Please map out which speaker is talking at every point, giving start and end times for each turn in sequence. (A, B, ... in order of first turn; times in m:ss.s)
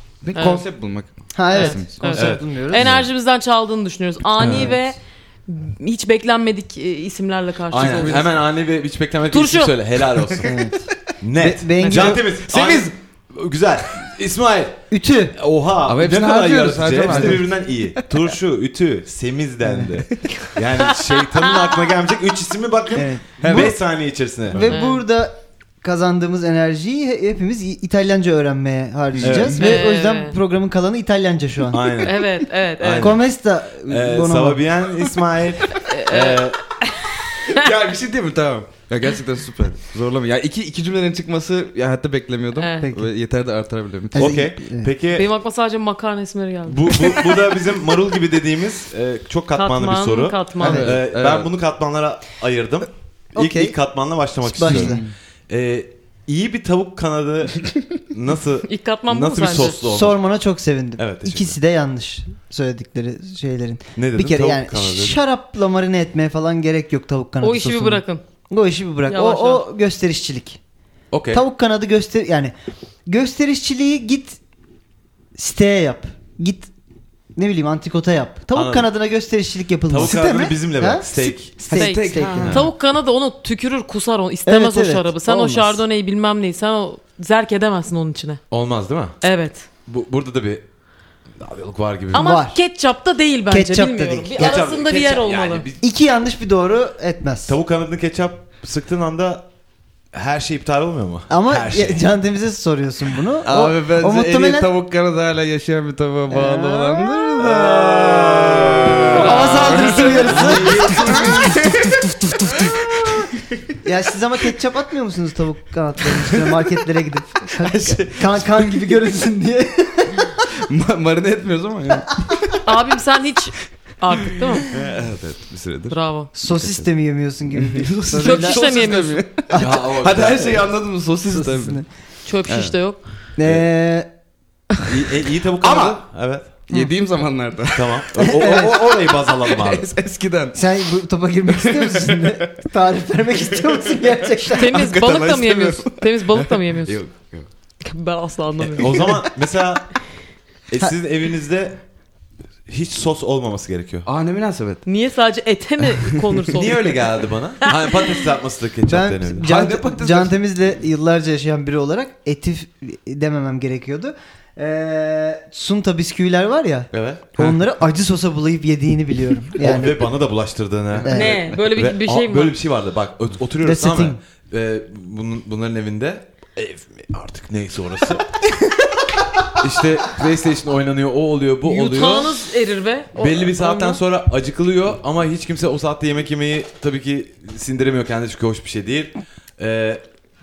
0:00.2-0:02.1 A
0:00.4-0:00.6 B
0:01.3-0:02.8 C
0:01.5-0:08.3 B
0:02.2-0:03.1 D
0:04.4-0:04.7 A
0:04.4-0:04.8 C
0:07.7-0:10.5 D
0:07.8-0:08.3 A
0:09.3-0:09.8 B
0:10.2-0:10.6 A
0:10.4-0:12.4 C
0:11.2-0:14.8 D
0:11.8-0:12.2 B
0:12.5-0:12.9 A
0:14.9-0:15.4 C
0:15.4-0:24.7 D
0:15.8-0:18.3 A
0:17.1-0:17.4 C
0:19.6-0:20.0 C
0:21.4-0:21.9 B
0:22.9-0:23.8 C
0:23.4-0:23.8 A
0:24.5-0:32.1 C
0:24.7-0:25.0 B
0:29.1-0:29.7 A
0:29.2-0:29.6 D
0:29.6-0:30.4 B
0:31.7-0:32.2 D
0:32.0-0:33.2 B
0:32.8-0:33.3 D
0:33.0-0:34.6 C
0:33.8-0:36.6 D
0:35.8-0:37.7 B
0:37.4-0:44.4 A
0:42.6-0:42.9 B
0:42.8-0:43.1 C
0:44.1-0:44.9 C
0:44.2-0:45.3 D
0:45.1-0:47.2 B
0:46.7-1:00.2 D
0:49.6-0:50.9 B
0:50.6-0:50.9 C
0:50.7-0:51.5 A
0:53.4-0:53.8 C
0:54.4-0:55.0 C
0:54.6-0:55.1 A
0:58.6-0:59.8 B
0:59.8-1:10.6 C
1:01.0-1:01.6 D
1:04.0-1:05.2 D
1:07.4-1:08.2 B
1:09.1-1:09.6 B
1:11.1-1:11.4 D
1:11.3-1:12.5 C
1:13.1-1:14.4 C
1:15.4-1:16.7 C
1:17.4-1:22.6 C
1:18.6-1:18.9 D
1:19.9-1:21.5 D
1:21.6-1:22.6 A
1:21.7-1:28.4 B
1:22.4-1:22.7 D
1:24.5-1:25.8 C
1:28.5-1:29.2 D
1:29.2-1:29.7 B
1:29.8-1:30.6 D
1:31.4-1:32.3 D
1:32.1-1:32.6 C
1:32.1-1:35.7 B
1:33.5-1:34.7 C
1:34.4-1:35.8 D
1:35.8-1:37.6 C
1:37.5-1:39.5 D
1:40.1-1:42.0 D
1:41.3-1:44.7 C
1:43.5-1:53.3 A
1:46.3-1:48.0 C
1:47.4-1:51.6 D
1:49.1-1:50.5 B
1:49.1-1:52.7 C
1:53.8-2:00.4 C
1:56.1-1:56.4 A
1:57.7-1:58.0 A
2:00.7-2:02.6 A
2:02.6-2:04.7 B
2:04.6-2:06.9 A
2:05.9-2:06.3 B
2:06.4-2:08.6 C
2:07.5-2:11.8 A
2:08.2-2:09.2 B
2:09.5-2:09.8 C
2:09.6-2:10.7 D
2:11.3-2:11.9 C
2:12.2-2:13.0 B
2:12.5-2:12.8 A
2:13.4-2:14.1 C
2:14.9-2:16.5 D
2:15.5-2:16.0 A
2:16.7-2:20.7 A
2:17.7-2:19.9 D
2:18.2-2:18.9 C
2:20.5-2:24.9 C
2:21.5-2:22.6 A
2:24.5-2:27.5 A
2:24.6-2:27.0 B
2:27.8-2:29.1 B
2:28.6-2:29.3 A
2:28.8-2:29.9 D
2:30.7-2:31.8 D
2:32.7-2:34.1 D
2:34.0-2:34.8 A
2:34.8-2:37.1 B
2:36.5-2:39.5 D
2:37.7-2:38.1 B
2:38.9-2:50.1 C
2:39.4-2:40.3 A
2:46.9-2:47.4 D
2:49.6-2:58.4 D
2:51.0-2:51.4 C
2:51.1-2:52.6 B
2:53.6-2:54.2 C
2:59.5-3:02.4 D
3:01.6-3:04.0 B
3:03.2-3:10.0 D